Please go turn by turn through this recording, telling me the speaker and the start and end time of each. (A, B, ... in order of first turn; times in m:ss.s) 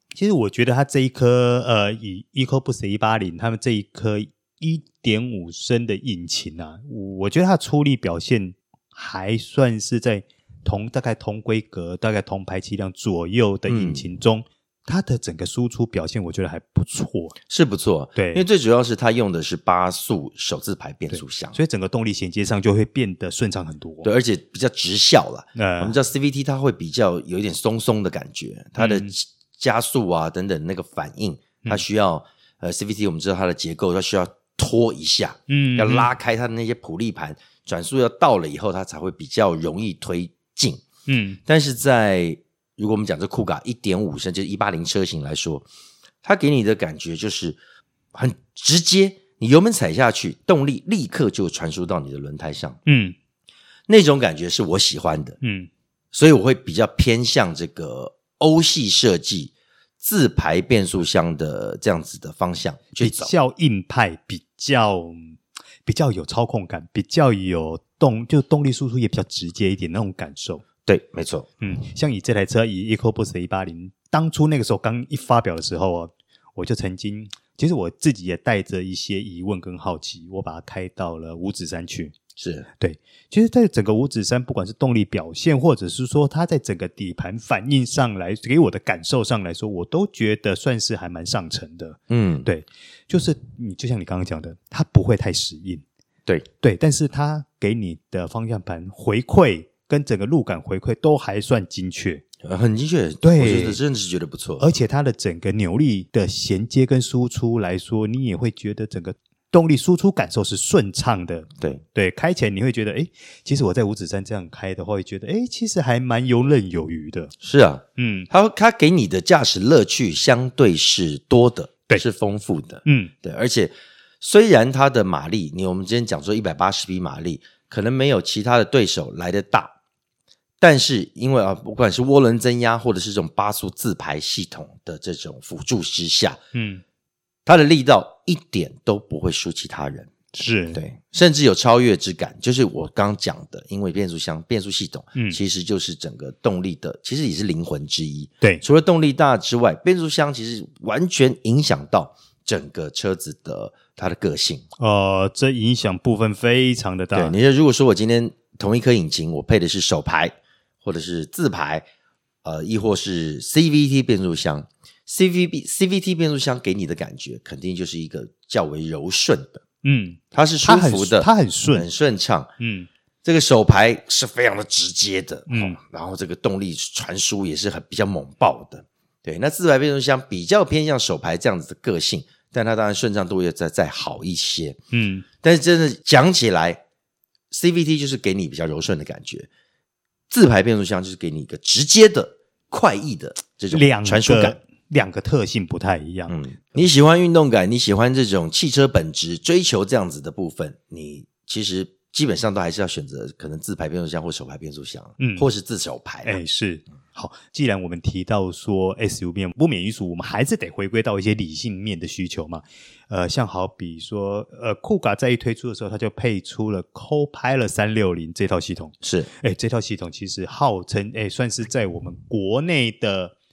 0:00.2-0:17.4 A
0:13.7-0:14.1 B
0:17.5-0:21.6 B
0:18.2-0:18.4 A
0:21.1-0:24.1 A
0:24.0-0:40.8 B
0:25.6-0:26.0 A
0:28.8-0:29.1 A
0:35.5-0:36.1 A
0:41.1-0:41.4 A
0:41.5-0:45.7 B
0:46.2-0:47.6 B
0:48.1-0:52.8 B
0:52.9-0:53.2 A
0:53.9-0:55.4 B
0:55.4-0:55.7 A
0:56.1-1:03.3 B
1:03.0-1:10.6 A
1:10.9-1:11.5 B
1:11.6-1:22.2 A
1:22.4-1:22.7 B
1:22.8-1:35.8 A
1:32.1-1:32.5 B
1:36.6-1:42.2 A
1:42.4-1:44.7 B
1:43.2-1:43.8 A
1:44.6-1:57.3 A
1:57.4-2:09.8 B
1:58.0-1:58.3 A
2:02.8-2:03.1 A
2:10.6-2:16.4 B
2:16.5-2:16.8 A
2:17.5-2:20.1 B
2:20.3-2:20.8 A
2:20.7-2:34.7 B
2:34.8-2:37.4 A
2:37.1-2:41.9 B
2:42.4-2:49.6 B
2:49.8-2:51.8 A
2:50.3-2:52.5 B
2:52.6-2:52.9 A
2:53.2-3:04.8 B
2:55.5-2:55.8 A
3:04.9-3:05.3 A
3:05.4-3:06.8 B
3:07.5-3:09.5 B
3:10.3-3:14.6 B
3:13.7-3:16.4 A
3:16.3-3:26.4 B
3:25.2-3:25.5 A
3:26.2-3:43.4 A
3:39.0-3:39.3 B